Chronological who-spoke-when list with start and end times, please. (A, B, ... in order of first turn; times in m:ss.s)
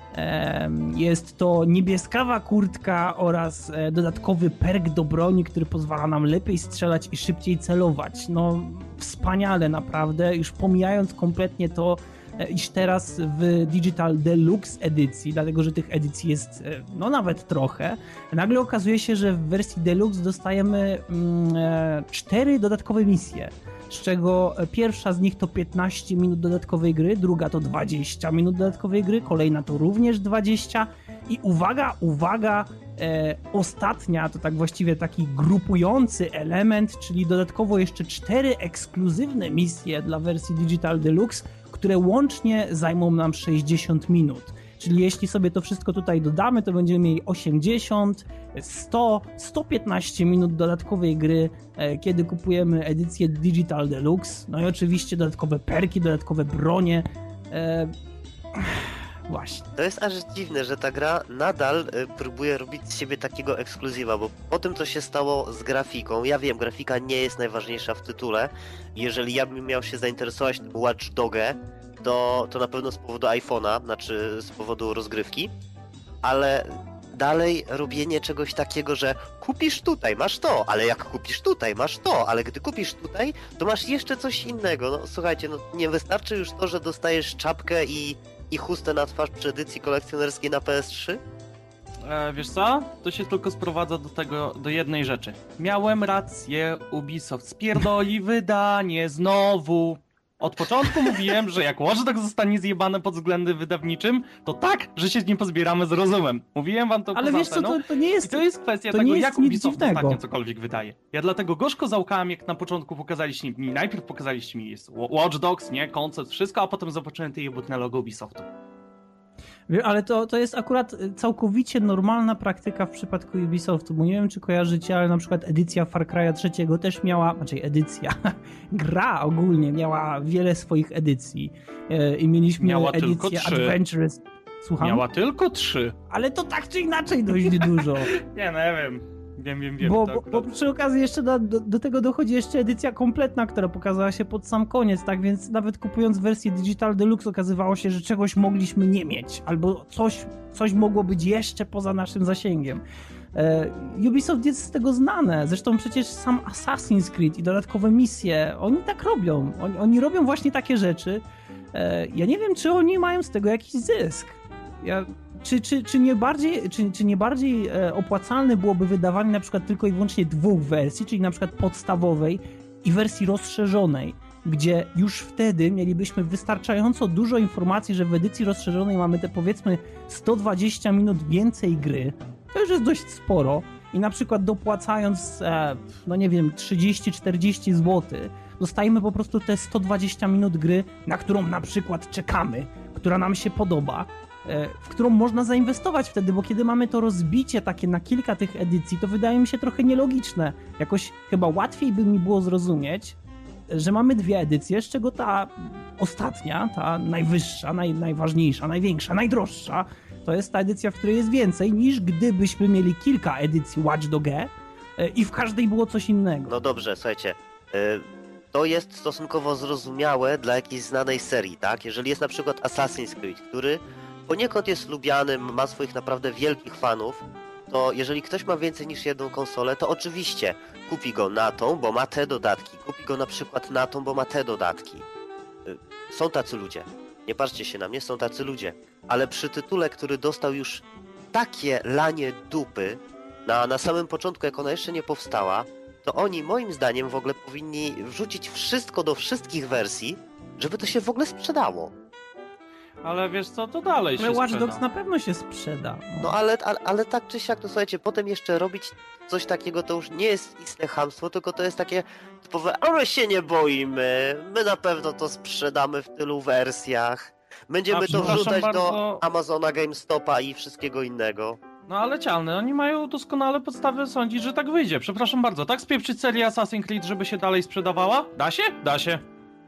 0:00.1-0:57.9 A
0:58.6-0:59.7 A
0:59.8-1:15.5 B
1:16.2-1:31.2 B
1:32.0-1:58.5 C
1:47.1-1:50.2 A
1:59.7-2:15.0 A
2:12.6-2:13.8 C
2:14.8-2:16.0 C
2:16.1-2:18.1 A
2:17.6-2:20.5 C
2:19.8-2:32.8 A
2:33.3-3:23.2 A
3:23.7-3:36.5 A
3:36.5-3:55.1 B
3:55.6-4:11.9 B
4:13.0-4:14.8 C
4:14.2-4:16.4 A
4:16.2-4:31.6 B
4:27.9-4:29.2 C
4:31.9-4:39.2 C